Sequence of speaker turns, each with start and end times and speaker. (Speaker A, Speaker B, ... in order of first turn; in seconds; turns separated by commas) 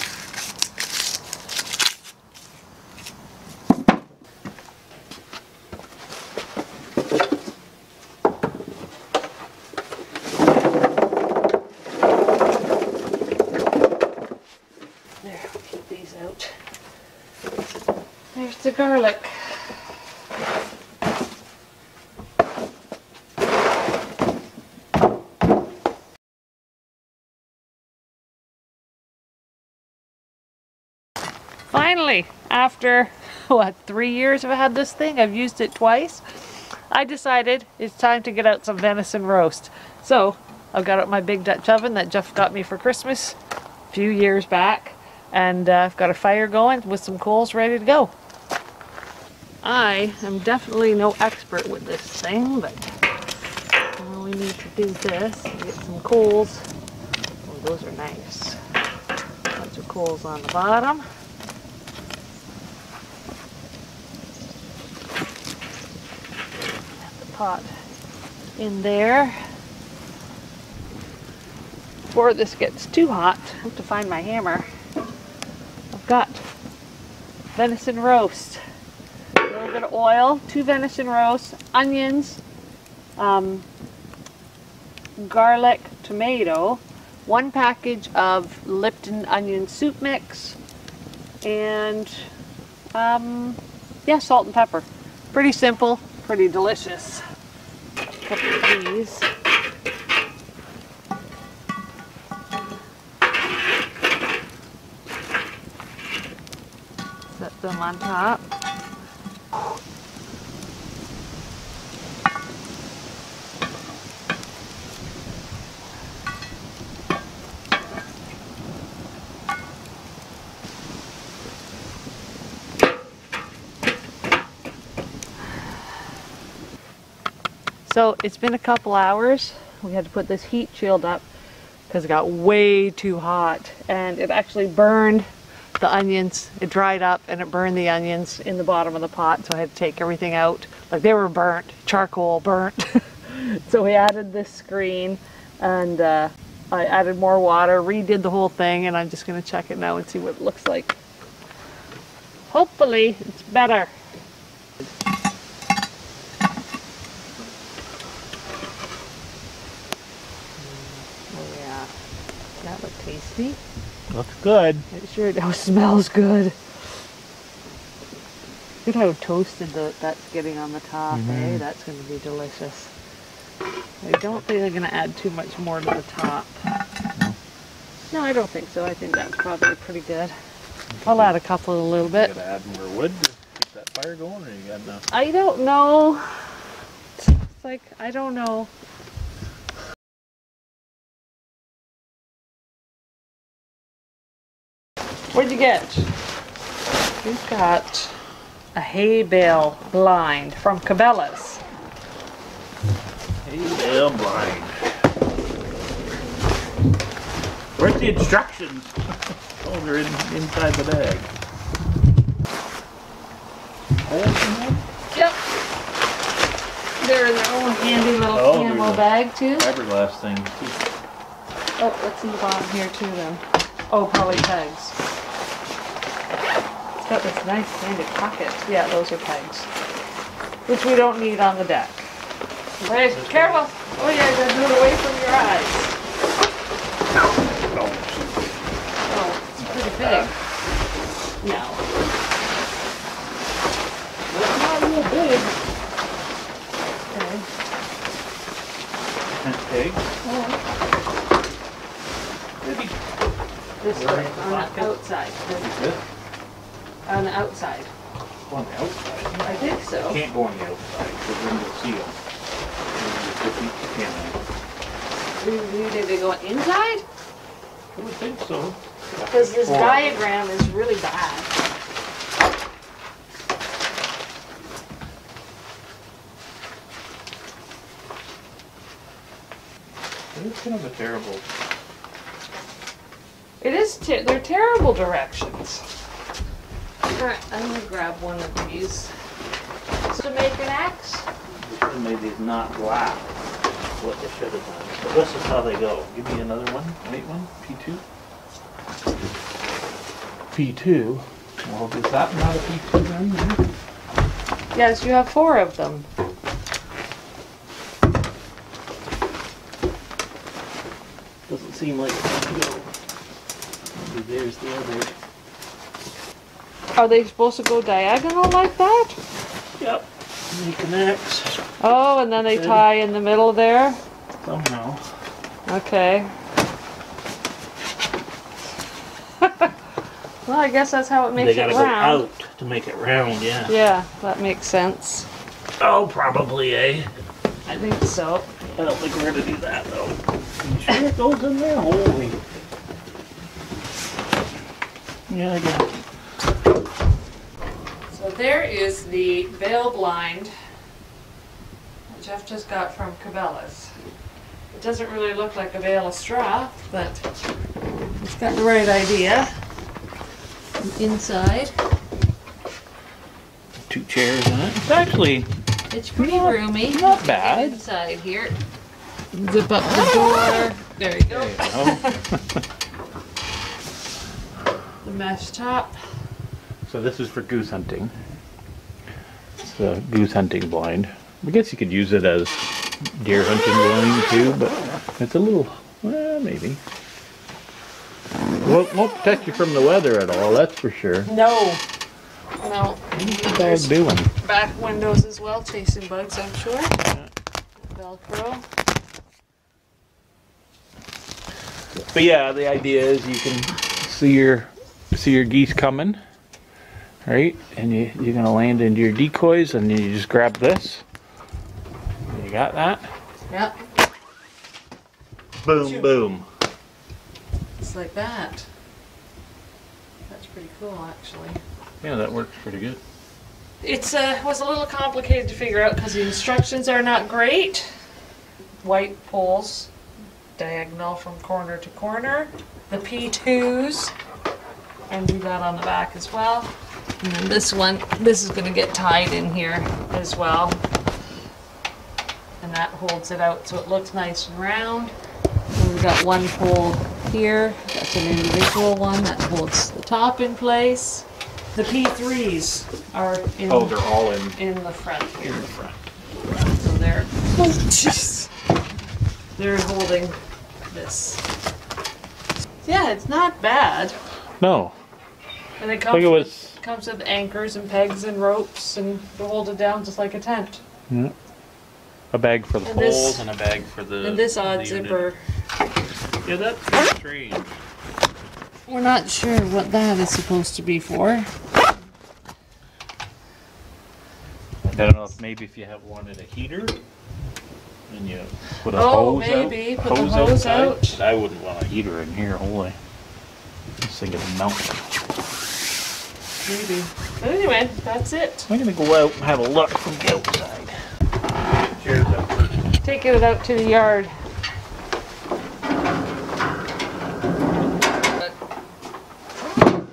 Speaker A: 15.2-16.5, Speaker A: 18.3-19.5, Speaker A: 31.7-36.2, Speaker A: 36.9-43.4, Speaker A: 43.9-48.1, Speaker A: 49.6-52.9, Speaker A: 54.0-56.6, Speaker A: 57.5-58.6, Speaker A: 59.5-61.0, Speaker A: 67.0-67.7, Speaker A: 68.6-69.4, Speaker A: 72.1-74.7, Speaker A: 75.9-76.4, Speaker A: 77.5-78.6, Speaker A: 79.4-82.4, Speaker A: 83.2-83.7, Speaker A: 85.2-90.6, Speaker A: 91.4-92.3, Speaker A: 92.9-97.2, Speaker A: 98.3-99.3, Speaker A: 107.3-108.4, Speaker A: 127.9-131.2, Speaker A: 131.9-135.3, Speaker A: 135.8-151.0, Speaker A: 152.5-153.9, Speaker A: 160.6-161.9, Speaker A: 162.6-163.6, Speaker B: 164.1-164.9, Speaker A: 164.9-166.6, Speaker A: 168.8-172.9, Speaker B: 171.1-171.6, Speaker A: 174.0-176.5, Speaker A: 178.1-180.3, Speaker B: 181.0-181.3, Speaker A: 181.0-182.3, Speaker B: 182.1-185.1, Speaker A: 185.1-186.6, Speaker A: 187.2-188.7, Speaker A: 195.3-196.1, Speaker A: 197.2-198.2, Speaker A: 198.7-201.6, Speaker B: 203.4-204.8, Speaker B: 207.8-209.0, Speaker B: 209.6-211.3, Speaker B: 214.0-214.8, Speaker A: 215.1-215.4, Speaker A: 217.0-219.7, Speaker B: 218.3-220.8, Speaker A: 221.8-224.9, Speaker A: 227.0-229.7, Speaker A: 230.7-232.1, Speaker A: 232.8-235.9, Speaker B: 233.1-233.7, Speaker B: 237.6-238.3, Speaker A: 239.1-240.3, Speaker B: 239.6-240.3, Speaker A: 241.4-241.8, Speaker B: 244.3-245.5, Speaker A: 247.1-247.5, Speaker B: 249.4-250.0, Speaker A: 250.2-250.6, Speaker B: 252.6-253.0, Speaker A: 253.8-255.7, Speaker B: 253.9-254.9, Speaker B: 255.5-256.0, Speaker A: 257.1-257.9, Speaker B: 258.5-262.2, Speaker A: 259.4-260.2, Speaker B: 263.0-264.4, Speaker A: 265.4-267.1, Speaker B: 267.9-270.2, Speaker A: 269.3-271.6, Speaker B: 280.3-281.4, Speaker A: 283.6-285.9, Speaker A: 287.1-289.1, Speaker A: 290.1-291.3, Speaker B: 291.6-293.3, Speaker B: 294.0-298.0, Speaker B: 300.5-303.6, Speaker A: 304.7-306.1, Speaker B: 311.5-312.9, Speaker B: 314.0-315.2, Speaker A: 317.0-319.2, Speaker B: 319.8-321.6, Speaker A: 321.8-324.0, Speaker B: 322.4-322.9, Speaker B: 324.4-325.0, Speaker A: 325.7-326.3, Speaker A: 329.4-329.7, Speaker A: 330.4-332.3, Speaker B: 331.4-333.7, Speaker A: 333.7-335.3, Speaker B: 335.8-337.1, Speaker A: 337.7-338.5, Speaker B: 338.8-342.4, Speaker B: 345.3-345.9, Speaker A: 348.1-350.5, Speaker A: 352.1-353.9, Speaker A: 354.7-357.3, Speaker A: 358.2-359.5, Speaker A: 360.8-361.7, Speaker B: 363.9-365.5, Speaker A: 365.9-368.6, Speaker B: 366.2-367.8, Speaker A: 369.3-372.2, Speaker B: 371.3-372.6, Speaker A: 375.0-376.0, Speaker B: 376.9-378.1, Speaker B: 379.6-382.6, Speaker B: 383.1-386.8, Speaker B: 388.6-391.3, Speaker A: 391.3-391.8, Speaker A: 392.6-396.9, Speaker B: 393.1-394.3, Speaker A: 397.9-398.7, Speaker B: 402.1-406.2, Speaker B: 407.2-411.1, Speaker B: 412.3-413.1, Speaker A: 413.5-413.8, Speaker B: 415.6-416.5, Speaker A: 415.8-416.1, Speaker A: 417.8-418.7, Speaker A: 420.3-421.6, Speaker B: 422.0-423.0, Speaker A: 423.8-428.0, Speaker A: 428.8-429.9, Speaker A: 430.6-434.1, Speaker A: 435.1-440.8, Speaker A: 442.6-445.1, Speaker A: 445.8-455.7, Speaker B: 453.7-454.6, Speaker B: 455.4-456.0, Speaker A: 456.6-458.5, Speaker A: 459.6-460.4, Speaker A: 460.9-461.4, Speaker A: 462.8-464.2, Speaker B: 464.6-464.9, Speaker A: 465.8-470.8, Speaker B: 466.1-466.8, Speaker B: 471.1-471.4, Speaker B: 472.3-475.3, Speaker A: 472.8-473.4, Speaker A: 474.2-475.4, Speaker B: 476.4-477.8, Speaker A: 478.9-481.5, Speaker B: 484.8-487.0, Speaker B: 488.1-493.0, Speaker A: 488.9-491.2, Speaker B: 494.0-495.0, Speaker A: 496.6-498.7, Speaker B: 498.7-500.9, Speaker B: 501.8-502.8, Speaker A: 503.0-504.3